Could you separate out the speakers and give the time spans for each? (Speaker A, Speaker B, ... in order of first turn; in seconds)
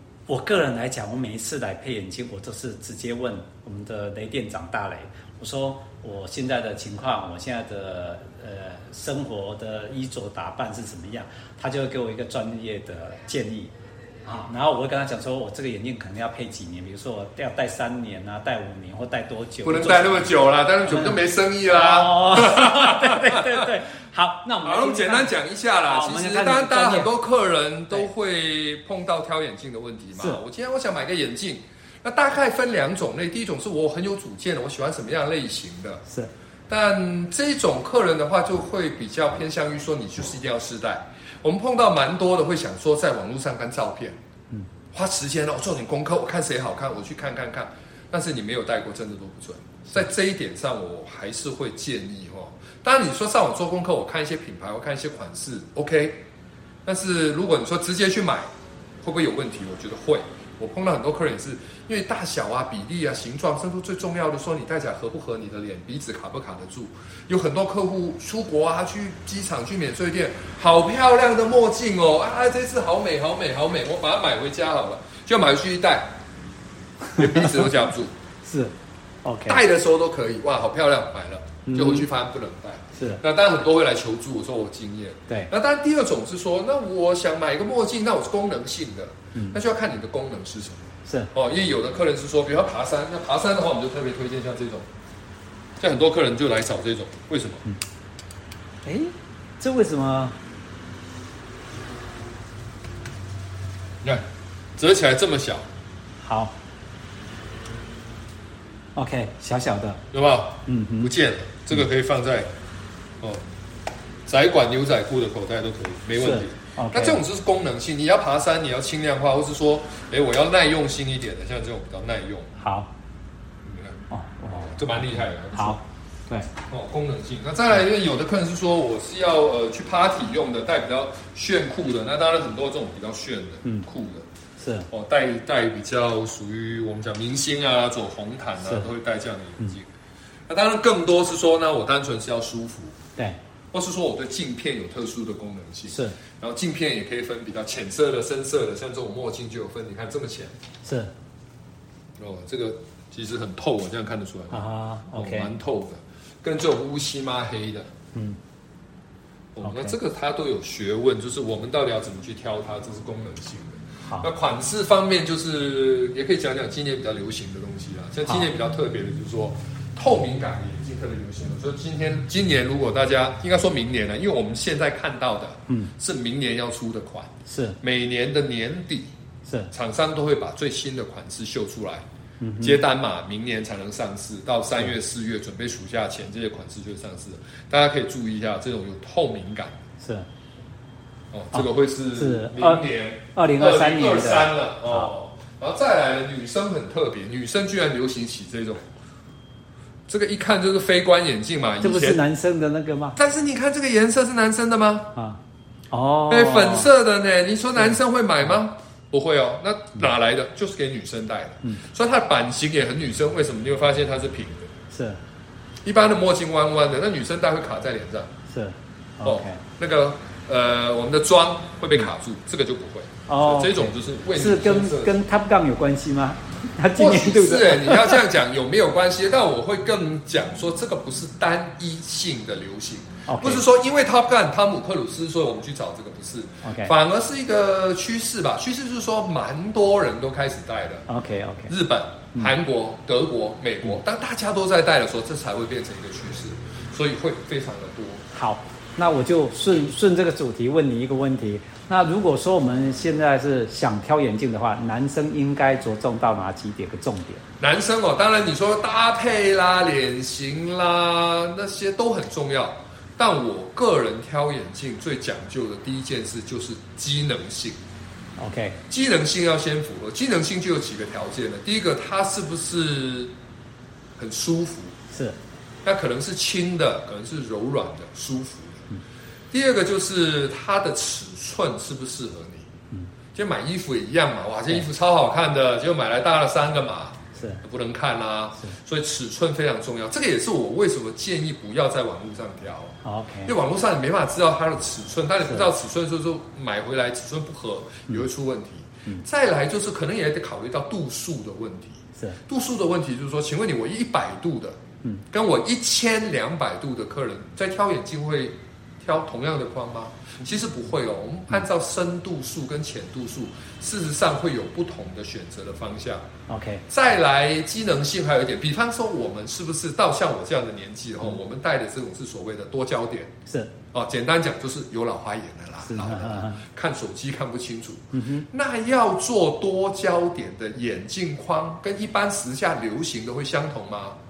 Speaker A: 0.3-13.7, 14.2-20.3, 20.9-25.3, 25.8-27.1, 77.2-77.4, 78.4-78.7, 79.2-79.6, 81.7-82.1, 82.9-83.2, 91.0-91.3, 98.8-100.4, 106.2-106.5, 109.0-110.0, 110.7-111.1, 116.2-117.2, 122.6-122.9, 124.1-126.5, 134.6-134.9, 138.6-138.9, 145.9-146.2, 150.8-151.1, 154.5-155.5, 159.6-159.9, 177.5-177.8, 179.4-179.7, 182.4-182.8, 190.0-190.2, 191.5-195.1, 201.8-203.2, 205.9-206.9, 207.8-208.6, 214.9-215.2, 218.5-219.6, 223.3-228.2, 233.3-233.6, 236.6-236.9, 241.1-241.7, 248.3-257.4, 268.4-268.8, 275.1-275.4, 287.3-287.6, 293.0-293.5, 316.5-316.8, 323.4-323.7, 325.8-326.6, 328.1-328.4
Speaker B: 19.6-23.7, 24.6-36.0, 36.7-44.2, 44.9-56.2, 56.8-58.5, 59.0-76.1, 77.2-78.1, 79.5-94.9, 95.8-97.6, 104.8-105.7, 110.1-112.5, 114.3-122.5, 123.6-124.0, 124.5-125.8, 126.7-134.2, 134.9-139.9, 140.5-143.0, 143.7-150.5, 152.2-157.9, 159.5-177.3, 177.8-179.1, 179.7-182.0, 182.6-189.8, 191.3-198.8, 200.1-202.2, 203.2-205.1, 206.3-214.7, 215.8-218.3, 219.2-225.2, 226.9-241.0, 241.7-248.2, 257.6-267.8, 268.9-273.3, 274.2-274.9, 275.8-278.9, 279.5-282.7, 283.3-304.8, 305.3-316.2, 316.9-323.3, 323.9-334.2